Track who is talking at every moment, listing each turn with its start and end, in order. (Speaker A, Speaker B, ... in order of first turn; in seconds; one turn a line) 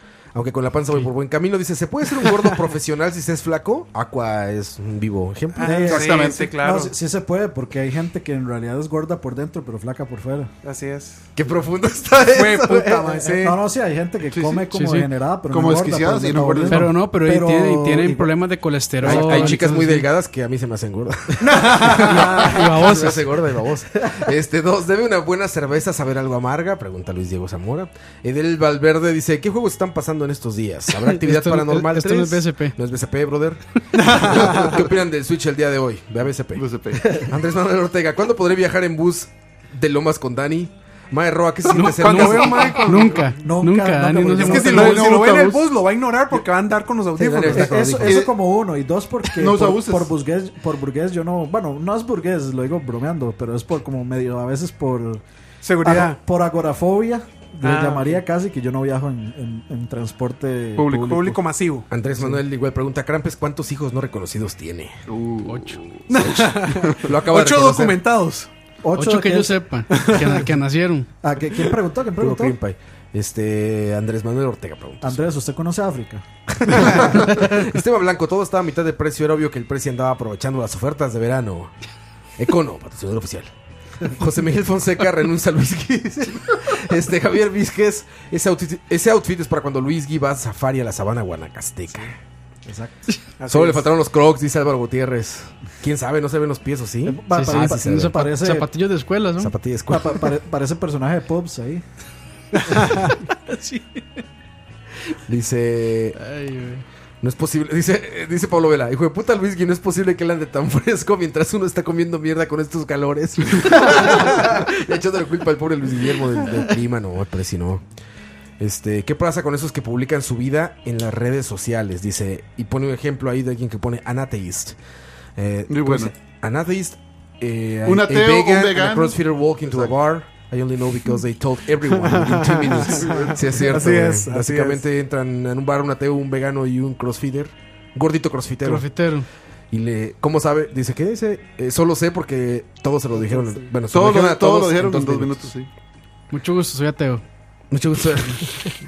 Speaker A: 0.3-5.7
Speaker B: 5.5-6.9
Speaker C: 5.6-10.5
Speaker D: 5.8-6.5
Speaker B: 10.6-11.2
Speaker A: 11.3-13.1
Speaker B: 12.3-13.6
Speaker C: 13.2-18.3
Speaker D: 14.3-14.6
Speaker E: 14.7-15.1
Speaker D: 15.5-16.9
Speaker E: 16.7-20.1
Speaker C: 19.0-19.6
Speaker A: 19.0-43.0
Speaker B: 21.4-22.4
Speaker C: 22.0-22.7
Speaker E: 22.1-23.2
Speaker E: 30.9-32.8
Speaker B: 33.9-34.8
Speaker D: 36.5-37.3
Speaker E: 41.7-45.2
Speaker B: 42.1-43.1
Speaker D: 42.2-43.3
Speaker C: 43.4-45.2
Speaker B: 44.4-48.0
Speaker D: 44.7-45.6
Speaker A: 47.2-48.2
Speaker C: 47.3-55.2
Speaker D: 48.0-48.3
Speaker D: 49.3-50.1
Speaker B: 55.6-56.2
Speaker C: 55.8-61.4
Speaker B: 57.6-58.2
Speaker B: 60.8-61.9
Speaker A: 61.9-65.0
Speaker D: 65.1-66.3
Speaker E: 65.5-65.8
Speaker B: 66.1-68.5
Speaker A: 67.0-68.0
Speaker C: 68.8-69.6
Speaker E: 69.0-71.1
Speaker B: 70.0-70.3
Speaker C: 71.2-72.5
Speaker A: 72.2-75.2
Speaker C: 75.0-77.5
Speaker A: 76.7-81.7
Speaker A: 82.4-83.5
Speaker A: 84.0-92.2
Speaker C: 92.7-93.0
Speaker B: 93.4-93.9
Speaker A: 93.5-98.2
Speaker C: 97.0-98.7
Speaker E: 97.3-99.5
Speaker A: 99.4-100.3
Speaker C: 99.9-101.8
Speaker E: 102.5-104.2
Speaker A: 105.3-106.2
Speaker E: 106.2-106.8
Speaker A: 107.2-117.8
Speaker A: 118.6-124.8
Speaker A: 125.3-138.9
Speaker D: 125.7-126.1
Speaker D: 127.8-129.9
Speaker B: 131.9-134.8
Speaker D: 133.0-133.4
Speaker E: 138.6-139.2
Speaker A: 139.7-145.5
Speaker D: 143.9-145.7
Speaker E: 146.3-147.2
Speaker A: 147.7-148.7